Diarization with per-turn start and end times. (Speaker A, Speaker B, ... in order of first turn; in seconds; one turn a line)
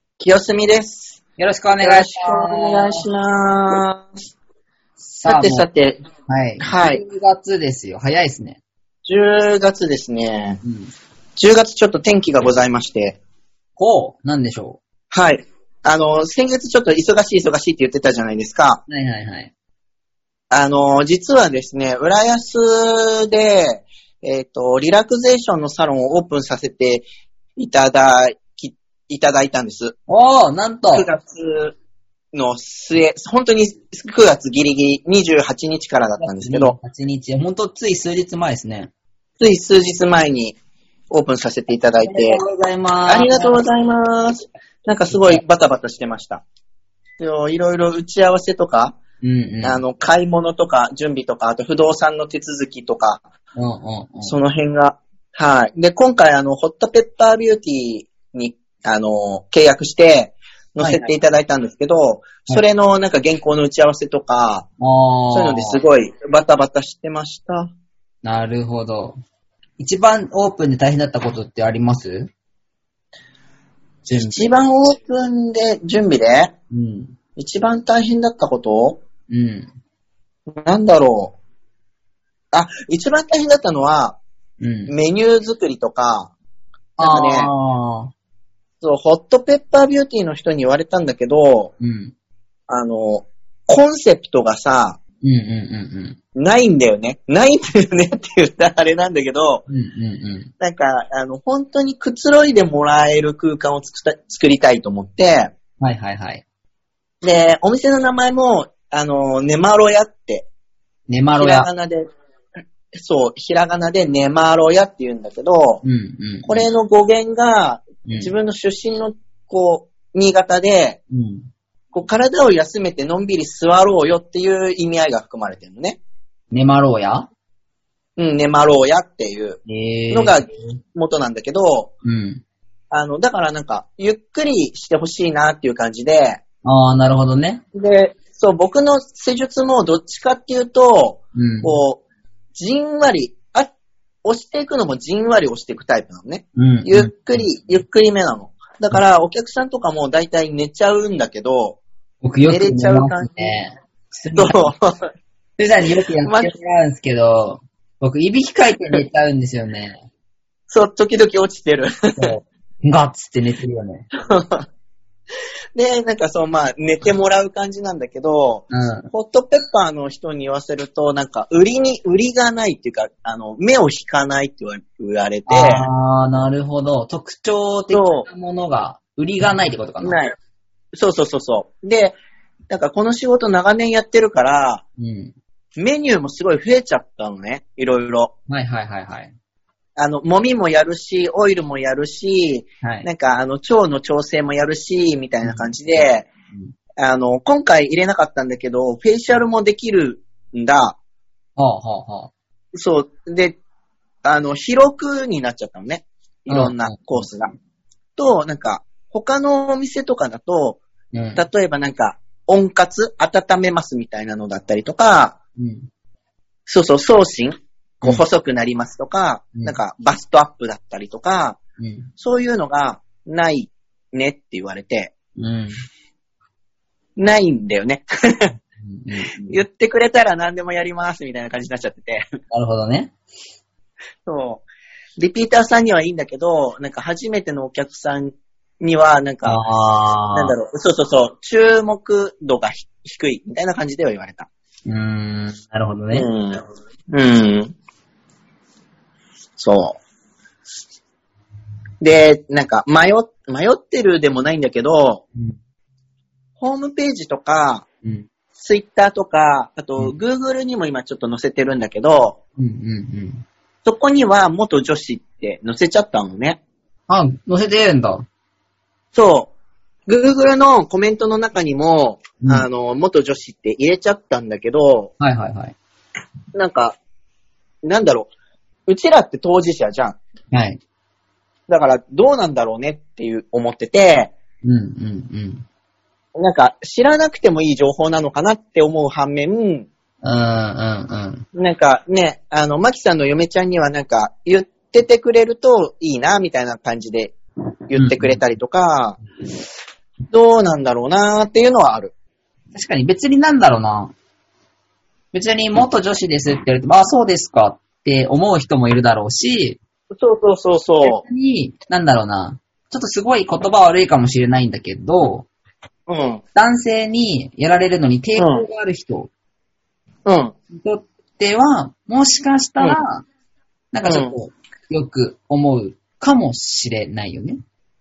Speaker A: 0.2-1.2
Speaker B: 1.4-3.1
Speaker A: 1.8-4.1
Speaker B: 5.0-5.7
Speaker A: 5.3-6.0
Speaker B: 6.3-8.6
Speaker A: 6.6-7.0
Speaker A: 9.1-10.6
Speaker B: 10.6-10.9
Speaker A: 11.4-13.2
Speaker B: 13.8-14.8
Speaker A: 15.1-18.8
Speaker B: 18.9-19.5
Speaker A: 20.5-27.1
Speaker A: 27.6-29.9
Speaker B: 30.1-31.1
Speaker A: 30.9-31.8
Speaker A: 32.3-36.8
Speaker B: 36.2-38.9
Speaker A: 39.4-40.6
Speaker A: 41.1-42.4
Speaker B: 42.0-43.7
Speaker A: 43.1-46.4
Speaker B: 45.1-45.4
Speaker A: 47.2-49.0
Speaker B: 49.2-49.8
Speaker A: 49.6-53.2
Speaker B: 53.6-54.4
Speaker A: 54.2-64.7
Speaker B: 60.8-61.1
Speaker B: 64.8-65.8
Speaker A: 65.3-67.7
Speaker B: 68.2-69.2
Speaker B: 69.8-72.3
Speaker B: 74.1-74.5
Speaker A: 74.1-76.5
Speaker B: 76.7-77.2
Speaker A: 77.4-79.0
Speaker B: 79.3-79.7
Speaker A: 80.6-81.3
Speaker A: 82.5-84.2
Speaker B: 84.6-84.9
Speaker A: 84.9-86.3
Speaker B: 87.0-88.1
Speaker A: 87.0-87.5
Speaker A: 88.8-91.7
Speaker B: 91.8-92.1
Speaker A: 92.7-95.0
Speaker B: 95.2-96.2
Speaker A: 96.4-99.7
Speaker B: 99.7-100.5
Speaker A: 100.6-105.5
Speaker B: 105.8-106.4
Speaker A: 107.2-110.5
Speaker B: 111.1-111.7
Speaker A: 111.4-112.1
Speaker A: 112.9-115.8
Speaker B: 115.8-116.7
Speaker A: 116.5-121.0
Speaker B: 118.1-118.3
Speaker B: 121.1-121.5
Speaker A: 121.9-126.0
Speaker B: 126.5-127.3
Speaker A: 128.2-129.6
Speaker B: 129.7-130.8
Speaker A: 130.1-131.9
Speaker B: 132.0-132.4
Speaker A: 132.9-136.4
Speaker B: 136.7-137.6
Speaker A: 137.8-142.0
Speaker B: 141.3-141.8
Speaker A: 142.6-143.7
Speaker A: 144.2-151.8
Speaker B: 146.6-147.8
Speaker B: 152.2-154.7
Speaker A: 152.5-153.6
Speaker A: 154.4-154.9
Speaker B: 155.6-160.0
Speaker A: 156.2-156.5
Speaker A: 160.7-162.3
Speaker B: 162.2-164.1
Speaker A: 164.2-164.7
Speaker A: 165.8-175.9
Speaker B: 168.7-169.1
Speaker B: 175.5-180.2
Speaker A: 177.9-178.3
Speaker A: 180.0-180.3
Speaker A: 180.9-182.2
Speaker A: 182.7-184.8
Speaker B: 185.0-185.3
Speaker A: 185.8-188.3
Speaker B: 188.5-189.3
Speaker A: 190.0-196.3
Speaker B: 192.8-193.1
Speaker B: 195.4-196.7
Speaker A: 197.0-201.0
Speaker B: 201.6-202.3
Speaker A: 202.7-203.6
Speaker A: 204.2-207.5
Speaker B: 206.5-207.3
Speaker A: 208.2-210.8
Speaker B: 211.1-211.4
Speaker A: 211.4-215.4
Speaker B: 215.6-215.9
Speaker A: 216.7-221.6
Speaker B: 221.8-222.1
Speaker A: 222.2-225.1
Speaker B: 225.4-225.8
Speaker A: 227.2-228.5
Speaker B: 228.8-229.6
Speaker A: 229.4-232.2
Speaker B: 232.5-233.1
Speaker A: 234.3-234.7
Speaker A: 235.2-239.6
Speaker B: 239.4-240.6
Speaker A: 240.3-244.5
Speaker B: 244.9-246.3
Speaker A: 246.1-247.7
Speaker A: 249.6-250.0
Speaker A: 252.0-255.2
Speaker A: 256.6-257.9
Speaker B: 258.0-258.3
Speaker A: 258.6-262.4
Speaker B: 262.6-263.4
Speaker A: 263.9-266.6
Speaker B: 267.1-268.3
Speaker A: 269.1-269.5
Speaker A: 270.1-275.1
Speaker B: 275.2-275.8
Speaker A: 276.5-277.0
Speaker A: 277.8-278.3
Speaker A: 278.9-280.2
Speaker B: 280.5-280.8
Speaker A: 281.7-284.3
Speaker B: 284.6-285.6
Speaker A: 286.4-289.9
Speaker B: 290.2-291.5
Speaker A: 291.6-297.4
Speaker A: 297.9-299.2
Speaker B: 297.9-298.4
Speaker A: 300.3-302.1
Speaker B: 302.7-304.1
Speaker B: 305.3-309.8
Speaker A: 310.1-311.2
Speaker B: 311.0-315.5
Speaker A: 316.1-316.4
Speaker B: 316.6-319.3
Speaker A: 318.4-318.6
Speaker A: 320.2-320.5
Speaker B: 320.7-323.3
Speaker B: 323.9-327.6
Speaker A: 324.1-324.3